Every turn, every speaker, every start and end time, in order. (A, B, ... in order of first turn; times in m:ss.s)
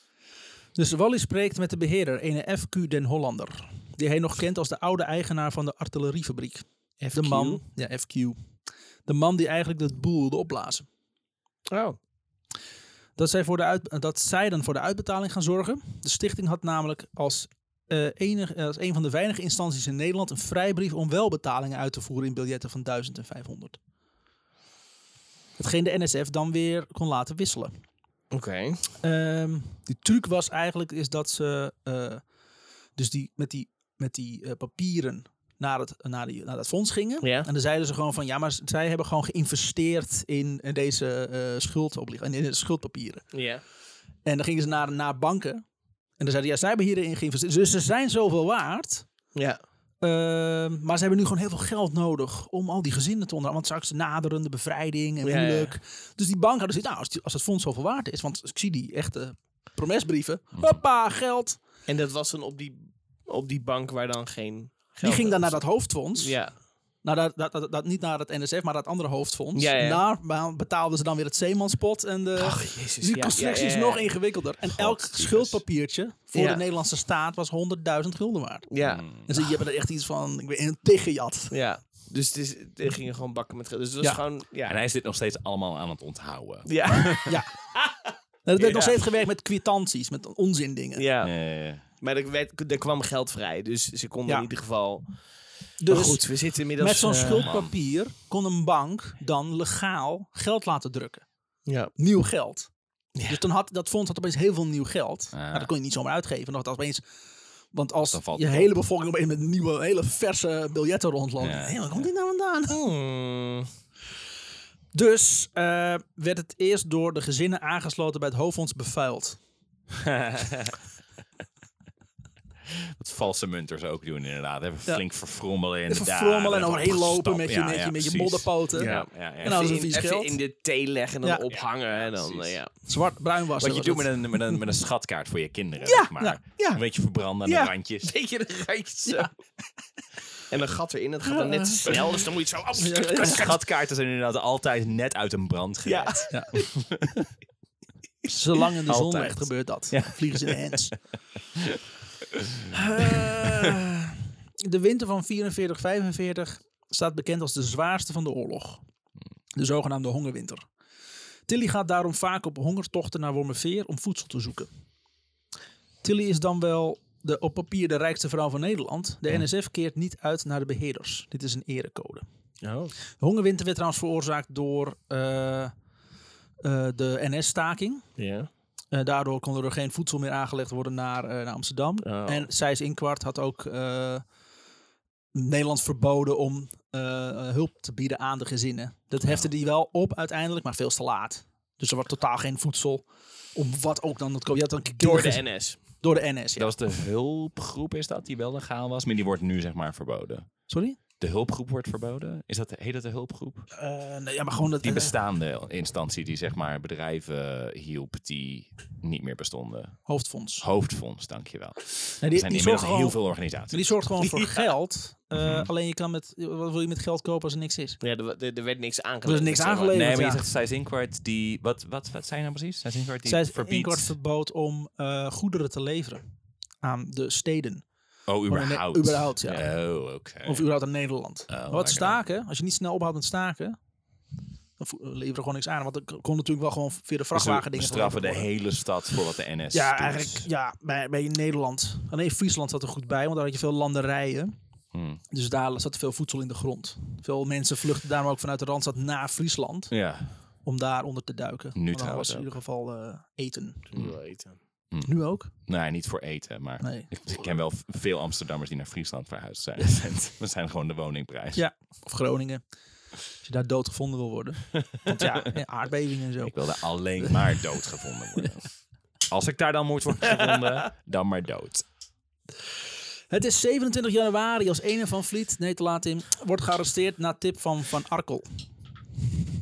0:00.7-0:08.4 A
0:07.0-0:07.6 B
0:09.0-0:10.8 A
0:11.7-0:12.0 B
0:13.2-0:23.8 A
0:25.6-0:27.7 A
0:28.3-0:28.8 B
0:29.0-0:32.2 A
0:33.0-0:43.2 A
0:37.2-0:37.5 B
0:43.3-0:43.6 B
0:44.2-0:45.6 A
0:46.2-0:49.1 A
0:50.0-1:01.6 A
0:55.2-0:55.8 B
1:01.8-1:06.5 B
1:05.0-1:06.4 A
1:07.0-1:21.5 A
1:09.5-1:10.0 B
1:12.4-1:14.1 B
1:14.6-1:15.6 C
1:16.3-1:16.6 B
1:18.7-1:19.0 B
1:18.8-1:19.3 C
1:21.5-1:24.8 B
1:24.6-1:27.3 C
1:26.6-1:27.3 B
1:27.2-1:27.5 A
1:28.4-1:31.0 A
1:28.6-1:29.0 B
1:31.0-1:35.2 B
1:31.2-1:31.8 C
1:35.8-1:41.2 A
1:35.8-1:37.5 B
1:37.2-1:37.7 C
1:41.6-1:41.9 B
1:41.9-1:42.7 A
1:43.1-1:43.4 B
1:43.3-1:47.0 A
1:45.3-1:45.7 C
1:47.7-1:52.8 A
1:48.1-1:48.7 C
1:51.4-1:51.8 C
1:52.7-1:53.7 B
1:54.9-1:59.4 A
1:59.9-2:00.8 C
2:02.7-2:09.6 C
2:05.9-2:10.4 A
2:08.8-2:12.7 B
2:12.0-2:12.6 C
2:12.8-2:14.6 A
2:13.6-2:18.1 C
2:15.8-2:16.8 A
2:17.4-2:19.3 B
2:20.5-2:23.6 B
2:21.4-2:21.7 A
2:22.8-2:23.5 A
2:23.2-2:27.3 C
2:25.8-2:26.7 B
2:28.3-2:30.9 A
2:28.8-2:30.8 C
2:32.3-2:33.7 C
2:32.7-2:38.8 A
2:39.6-2:40.7 A
2:41.5-2:44.7 A
2:46.0-2:52.2 A
2:52.6-2:52.9 B
2:53.2-2:55.7 A
2:56.6-2:58.0 A
2:58.2-2:58.5 B
2:58.9-3:04.2 A
3:02.0-3:02.5 B
3:05.3-3:16.7 A
3:15.0-3:15.8 B
3:16.6-3:20.5 C
3:20.7-3:21.0 A
3:21.2-3:23.7 C
3:23.7-3:25.2 A
3:24.8-3:34.0 C
3:30.1-3:30.6 A
3:32.2-3:38.0 A
3:34.2-3:34.6 B
3:35.4-3:35.7 C
3:38.0-3:40.0 B
3:39.2-3:40.4 A
3:39.9-3:44.1 C
3:43.2-3:46.2 A
3:46.8-3:47.8 A
3:48.3-3:50.7 C
3:48.5-3:49.6 A
3:50.4-3:53.8 A
3:51.5-3:52.2 C
3:54.8-3:58.5 A
3:57.3-4:00.5 C
3:59.7-4:04.5 A
4:04.9-4:05.2 C
4:05.3-4:09.9 A
4:09.9-4:10.3 C
4:10.6-4:13.9 A
4:11.7-4:12.5 C
4:13.9-4:14.6 B
4:14.9-4:21.6 C
4:15.0-4:15.5 A
4:16.8-4:17.1 A
4:21.5-4:22.6 A
4:23.3-4:27.6 A
4:26.4-4:28.7 C
4:29.3-4:31.8 C
4:33.3-4:38.4 A